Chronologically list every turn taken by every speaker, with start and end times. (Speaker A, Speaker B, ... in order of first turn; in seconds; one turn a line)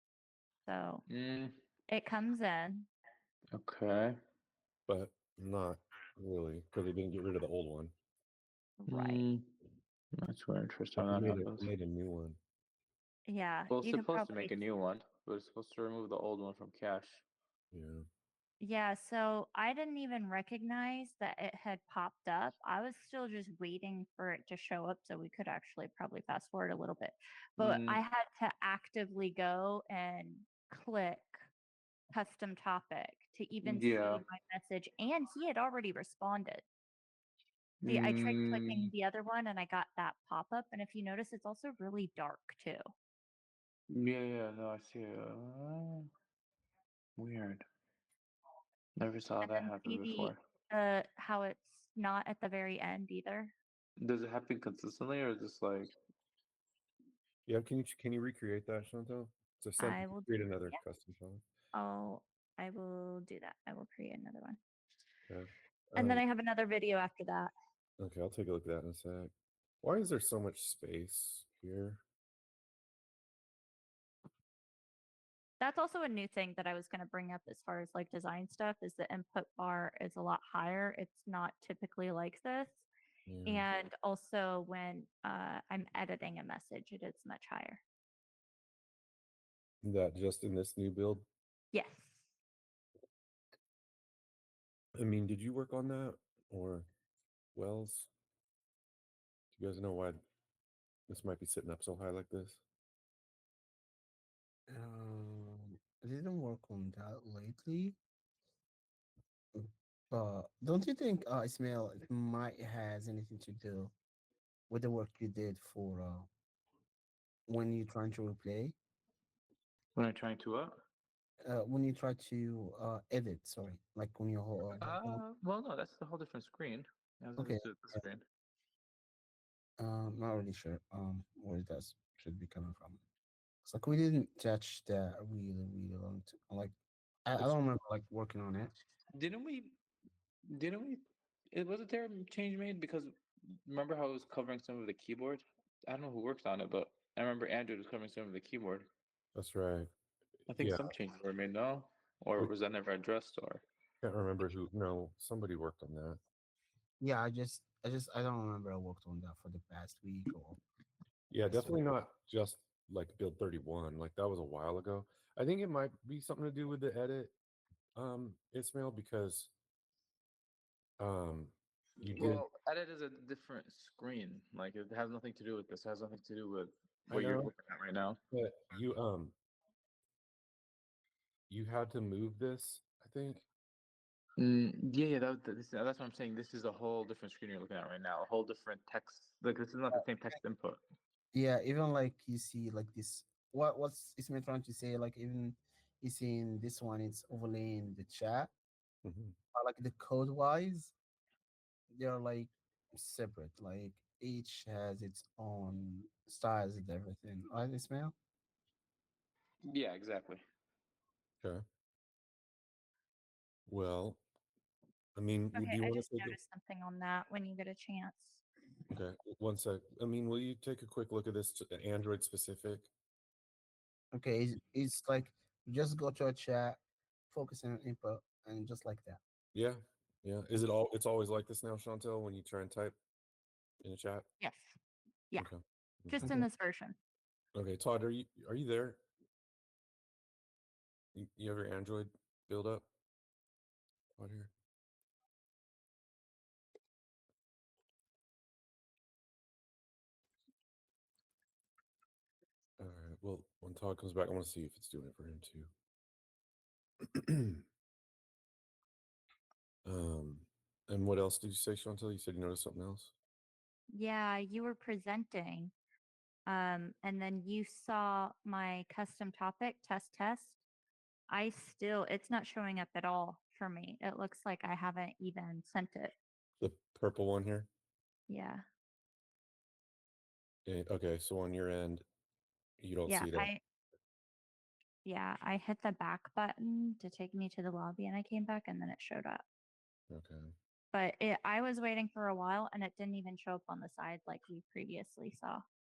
Speaker A: 0.7-1.0
Speaker B: 1.1-1.5
Speaker A: 1.9-2.9
Speaker B: 3.5-4.1
Speaker C: 4.9-7.9
Speaker A: 8.8-9.2
Speaker B: 8.9-9.5
Speaker B: 10.2-11.7
Speaker C: 11.0-12.4
Speaker A: 13.3-14.5
Speaker B: 13.7-17.2
Speaker C: 17.7-18.0
Speaker A: 18.6-31.5
Speaker B: 27.6-28.0
Speaker A: 32.1-36.6
Speaker B: 33.6-34.2
Speaker B: 37.8-38.9
Speaker A: 37.9-42.8
Speaker B: 43.9-46.1
Speaker B: 47.2-47.6
Speaker B: 49.0-50.4
Speaker A: 49.4-53.5
Speaker B: 54.0-55.9
Speaker C: 57.5-61.4
Speaker A: 59.8-60.8
Speaker A: 61.7-64.6
Speaker C: 65.3-66.2
Speaker A: 66.0-67.5
Speaker C: 68.0-72.0
Speaker A: 75.6-82.8
Speaker C: 83.3-83.7
Speaker A: 83.4-87.8
Speaker C: 89.8-91.3
Speaker A: 91.7-92.3
Speaker C: 94.9-96.9
Speaker C: 97.5-98.1
Speaker C: 99.5-100.2
Speaker C: 101.1-102.6
Speaker D: 104.7-108.0
Speaker D: 109.5-113.9
Speaker D: 114.7-116.3
Speaker D: 117.5-118.8
Speaker B: 120.0-120.8
Speaker D: 121.4-125.2
Speaker B: 124.8-128.2
Speaker D: 127.4-128.0
Speaker D: 129.8-133.0
Speaker D: 133.6-136.7
Speaker D: 137.2-138.7
Speaker B: 139.2-139.8
Speaker B: 140.5-143.1
Speaker B: 143.7-148.9
Speaker C: 149.3-149.9
Speaker B: 150.5-153.7
Speaker C: 150.5-150.9
Speaker C: 154.0-156.2
Speaker D: 157.0-160.6
Speaker C: 161.3-167.3
Speaker D: 161.5-161.8
Speaker C: 167.9-169.5
Speaker C: 171.0-172.4
Speaker B: 172.1-178.2
Speaker C: 177.1-177.5
Speaker C: 178.3-179.3
Speaker C: 181.5-183.4
Speaker B: 184.4-190.8
Speaker D: 191.3-198.5
Speaker C: 199.0-199.3
Speaker D: 199.5-200.9
Speaker D: 201.9-208.1
Speaker B: 209.7-210.4
Speaker C: 213.7-214.2
Speaker C: 215.1-216.3
Speaker A: 215.5-218.4
Speaker C: 218.9-222.9
Speaker D: 224.1-226.8
Speaker D: 227.3-229.2
Speaker C: 229.5-233.0
Speaker C: 233.8-234.3
Speaker A: 234.4-234.7
Speaker C: 235.4-236.4
Speaker A: 236.1-237.0
Speaker C: 237.5-239.0
Speaker C: 241.1-242.9
Speaker C: 244.2-244.5
Speaker C: 252.8-255.7
Speaker C: 257.1-257.6
Speaker C: 259.8-263.1
Speaker A: 263.9-265.7
Speaker A: 266.4-270.6
Speaker A: 271.3-276.1
Speaker C: 276.6-277.7
Speaker A: 278.3-278.6
Speaker C: 280.6-282.0
Speaker C: 282.8-283.5
Speaker A: 283.1-283.6
Speaker A: 285.0-289.4
Speaker C: 290.1-290.5
Speaker A: 290.9-295.6